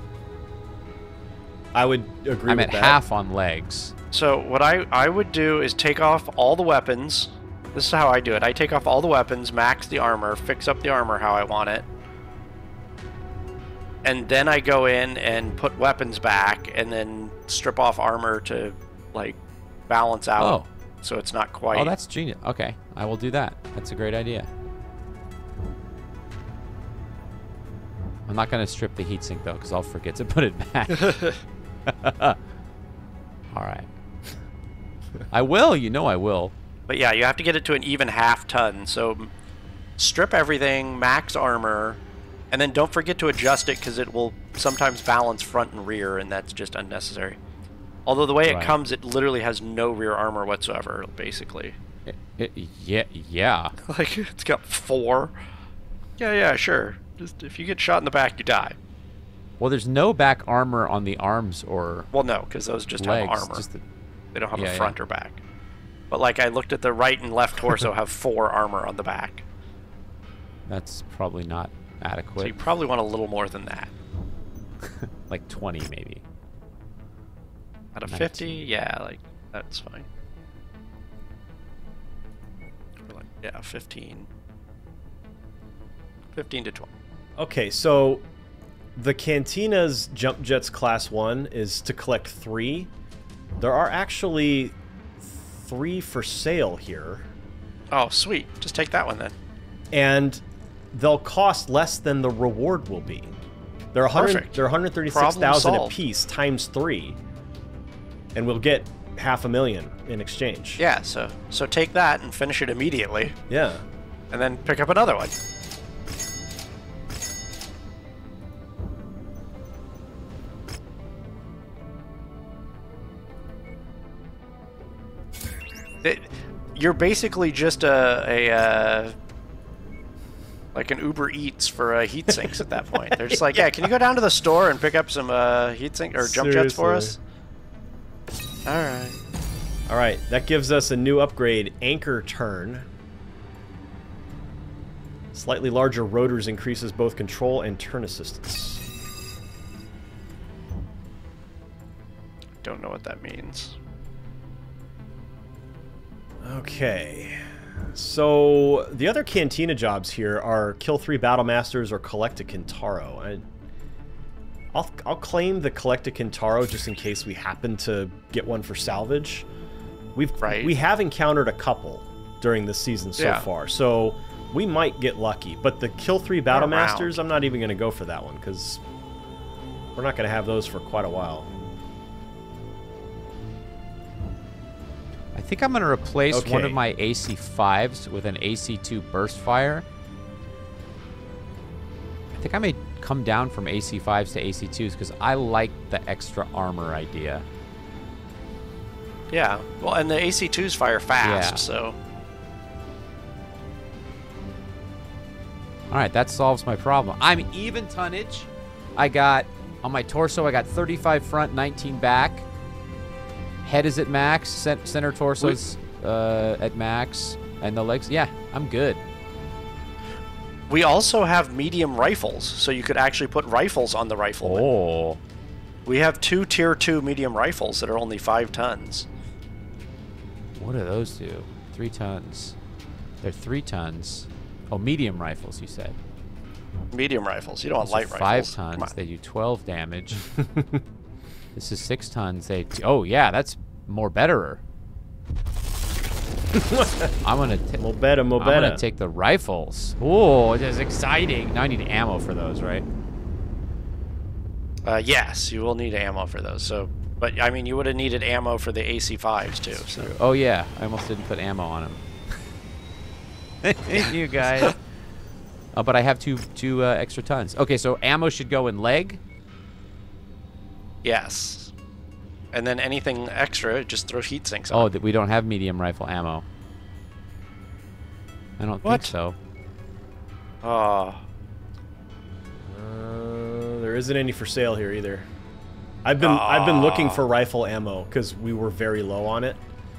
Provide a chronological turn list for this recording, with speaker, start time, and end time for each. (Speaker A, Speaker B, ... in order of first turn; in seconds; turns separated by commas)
Speaker A: 1.7-3.0, Speaker B: 2.5-3.9, Speaker C: 4.1-11.8, Speaker C: 14.0-21.9, Speaker B: 20.4-20.7, Speaker B: 21.7-24.5, Speaker B: 28.3-31.2, Speaker C: 31.0-31.4, Speaker B: 31.9-32.4, Speaker B: 33.5-33.9, Speaker B: 35.3-36.5, Speaker C: 36.9-39.3, Speaker C: 40.0-42.0, Speaker C: 42.5-47.4, Speaker C: 48.0-51.8, Speaker B: 48.4-48.8, Speaker B: 52.0-53.7, Speaker C: 53.9-55.4, Speaker C: 56.2-58.8, Speaker B: 59.6-62.1, Speaker C: 62.1-63.7, Speaker B: 63.0-63.8, Speaker C: 64.3-65.4, Speaker B: 64.5-64.9, Speaker C: 66.1-69.4, Speaker B: 70.7-72.6, Speaker C: 72.4-73.9, Speaker B: 74.8-76.2, Speaker C: 78.0-80.1, Speaker B: 78.1-78.6, Speaker C: 83.0-84.3, Speaker C: 86.3-86.9, Speaker A: 87.4-88.2, Speaker A: 89.0-92.9, Speaker A: 93.6-97.3, Speaker C: 97.9-99.4, Speaker A: 99.9-103.3, Speaker A: 103.9-107.2, Speaker C: 104.1-104.5, Speaker C: 105.1-106.0, Speaker A: 108.3-110.8, Speaker C: 110.8-113.4, Speaker A: 113.5-113.8, Speaker C: 114.3-115.3, Speaker C: 126.0-129.2, Speaker C: 130.7-137.2, Speaker A: 133.1-133.6, Speaker A: 136.2-137.2, Speaker C: 138.6-139.2, Speaker A: 139.9-142.9, Speaker A: 145.3-148.8, Speaker C: 152.6-153.8, Speaker A: 156.4-163.4, Speaker A: 164.7-169.5, Speaker A: 170.2-178.8, Speaker C: 170.4-170.7, Speaker C: 173.2-173.4, Speaker C: 176.5-177.2, Speaker A: 179.9-181.5, Speaker B: 185.3-189.8, Speaker A: 186.3-186.8, Speaker B: 192.3-197.4, Speaker C: 199.3-202.0, Speaker B: 201.2-201.6, Speaker B: 205.9-212.4, Speaker B: 213.6-219.0, Speaker C: 220.7-224.6, Speaker B: 224.4-225.2, Speaker C: 225.9-229.1, Speaker B: 230.6-232.6, Speaker B: 233.2-236.0, Speaker C: 236.9-238.9, Speaker B: 237.8-240.3, Speaker A: 240.3-240.8, Speaker B: 241.6-244.6, Speaker A: 246.5-247.1, Speaker B: 247.2-247.8, Speaker A: 247.8-248.8, Speaker B: 248.4-252.8, Speaker C: 254.8-260.1, Speaker B: 259.8-262.5, Speaker B: 263.6-264.8, Speaker C: 263.9-264.7, Speaker B: 265.7-269.2, Speaker C: 271.0-271.7, Speaker C: 272.5-274.9, Speaker B: 274.7-276.4, Speaker B: 278.6-279.4, Speaker C: 278.8-279.1, Speaker C: 280.6-281.2, Speaker A: 282.6-285.3, Speaker A: 286.0-289.6, Speaker C: 286.2-287.2